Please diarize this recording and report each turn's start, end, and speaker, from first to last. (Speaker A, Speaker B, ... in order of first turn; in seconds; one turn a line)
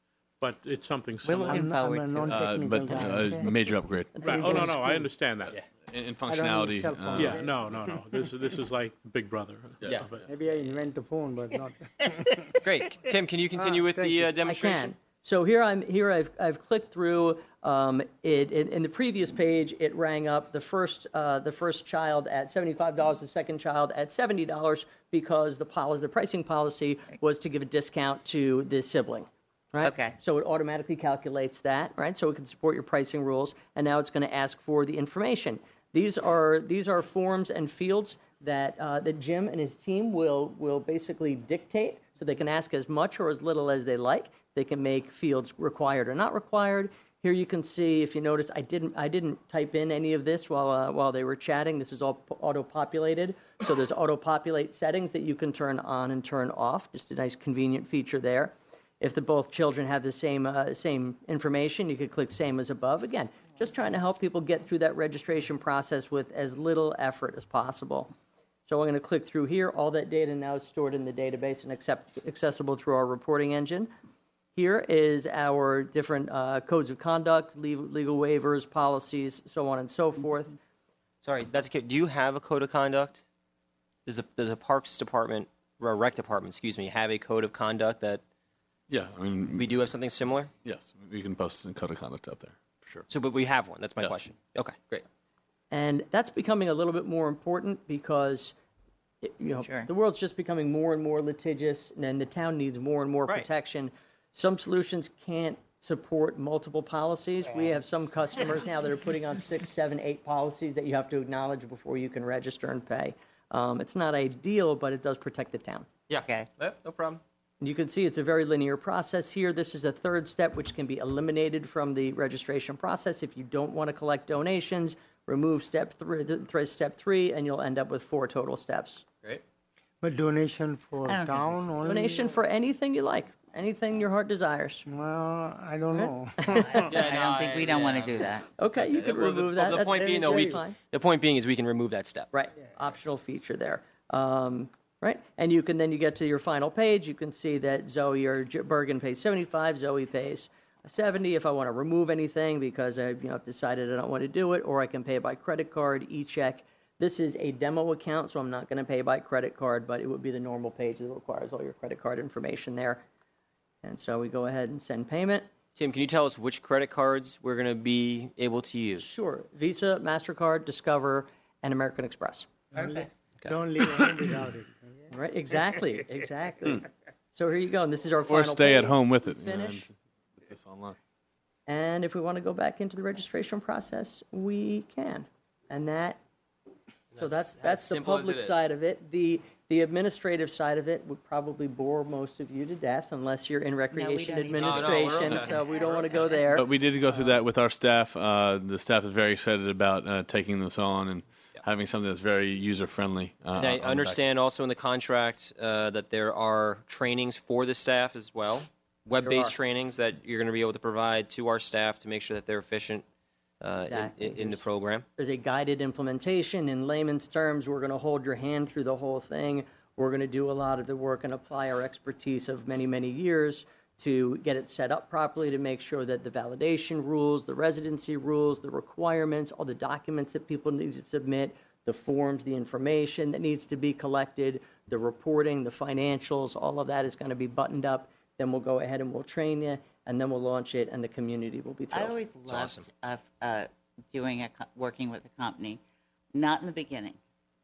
Speaker A: 0.4-1.7
Speaker B: 1.2-2.4
Speaker C: 1.4-3.5
Speaker D: 2.2-4.3
Speaker E: 4.1-4.7
Speaker A: 4.2-5.6
Speaker C: 4.2-5.1
Speaker D: 5.9-7.4
Speaker C: 6.3-7.9
Speaker A: 7.1-10.2
Speaker C: 10.3-12.6
Speaker F: 12.6-14.9
Speaker C: 13.5-14.3
Speaker E: 14.4-68.1
Speaker B: 29.8-30.1
Speaker E: 68.7-73.9
Speaker E: 74.5-80.5
Speaker F: 81.2-83.2
Speaker F: 84.0-88.2
Speaker D: 88.9-89.9
Speaker F: 89.6-90.5
Speaker D: 90.6-93.0
Speaker F: 93.1-95.0
Speaker E: 95.7-98.5
Speaker E: 99.2-115.9
Speaker B: 99.6-99.9
Speaker F: 116.1-117.2
Speaker B: 116.1-116.5
Speaker E: 117.6-129.0
Speaker C: 130.0-132.3
Speaker B: 131.0-131.5
Speaker E: 131.8-134.8
Speaker C: 134.9-136.9
Speaker E: 135.9-136.9
Speaker B: 136.6-138.5
Speaker F: 136.8-142.3
Speaker E: 138.6-140.8
Speaker C: 140.3-140.6
Speaker E: 142.3-163.0
Speaker E: 163.8-165.5
Speaker F: 165.8-169.1
Speaker E: 169.0-172.5
Speaker B: 172.7-173.1
Speaker C: 172.7-174.9
Speaker E: 175.1-179.9
Speaker D: 178.3-180.9
Speaker E: 181.7-186.2
Speaker F: 187.1-188.6
Speaker E: 187.2-196.7
Speaker B: 193.9-196.2
Speaker F: 194.6-195.6
Speaker D: 196.5-204.2
Speaker F: 203.6-213.0
Speaker E: 209.2-209.5
Speaker F: 213.6-215.1
Speaker E: 213.9-214.6
Speaker E: 215.2-242.2
Speaker B: 241.9-245.8
Speaker F: 242.5-242.9
Speaker B: 246.3-247.2